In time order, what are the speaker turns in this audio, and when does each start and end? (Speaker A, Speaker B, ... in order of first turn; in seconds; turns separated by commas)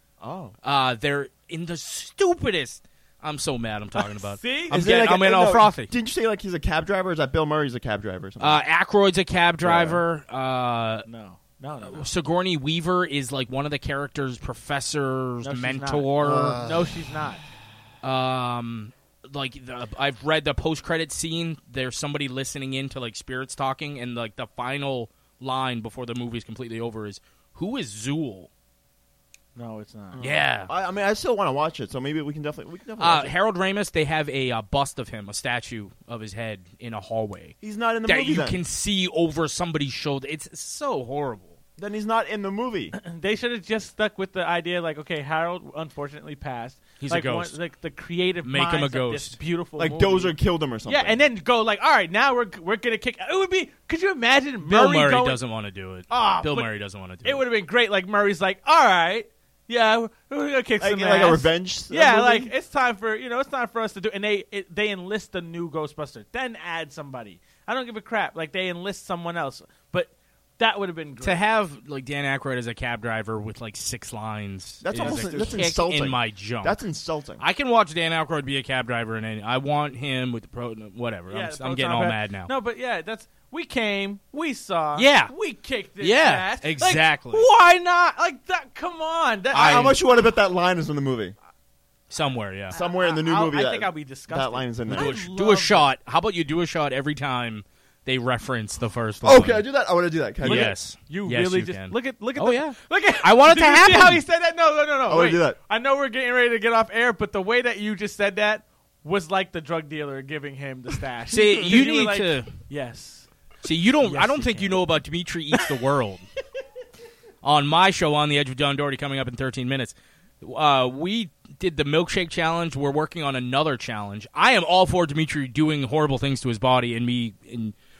Speaker A: 0.2-0.5, Speaker B: 0.6-5.9, Speaker C: 4.3-4.8, Speaker A: 4.7-8.6, Speaker B: 8.4-11.0, Speaker A: 9.6-10.0, Speaker C: 11.1-12.1, Speaker B: 11.9-16.6, Speaker C: 15.4-17.4, Speaker A: 16.2-16.9, Speaker B: 18.0-28.5, Speaker C: 29.5-30.2, Speaker B: 30.2-30.7, Speaker A: 30.2-33.3, Speaker B: 33.0-41.5, Speaker A: 37.6-38.6, Speaker A: 41.8-42.9, Speaker C: 42.9-50.3, Speaker B: 47.0-47.5, Speaker B: 48.4-49.4, Speaker A: 49.8-51.2, Speaker C: 50.9-55.4, Speaker B: 54.6-57.5, Speaker C: 56.1-56.7, Speaker C: 57.2-71.4, Speaker A: 60.8-62.5, Speaker B: 71.2-76.8, Speaker A: 74.8-77.4, Speaker C: 74.9-75.7, Speaker B: 77.4-82.5, Speaker C: 81.3-90.0, Speaker B: 85.0-85.3, Speaker B: 86.0-87.4, Speaker B: 89.5-89.9, Speaker A: 89.5-91.3, Speaker B: 92.1-92.7, Speaker C: 92.7-95.9, Speaker A: 92.7-95.2, Speaker B: 94.9-99.6, Speaker A: 99.2-100.7, Speaker B: 100.4-104.2, Speaker C: 100.4-113.3, Speaker A: 105.1-105.6, Speaker B: 111.3-112.5, Speaker B: 113.6-116.2, Speaker C: 114.0-114.8, Speaker B: 117.4-127.7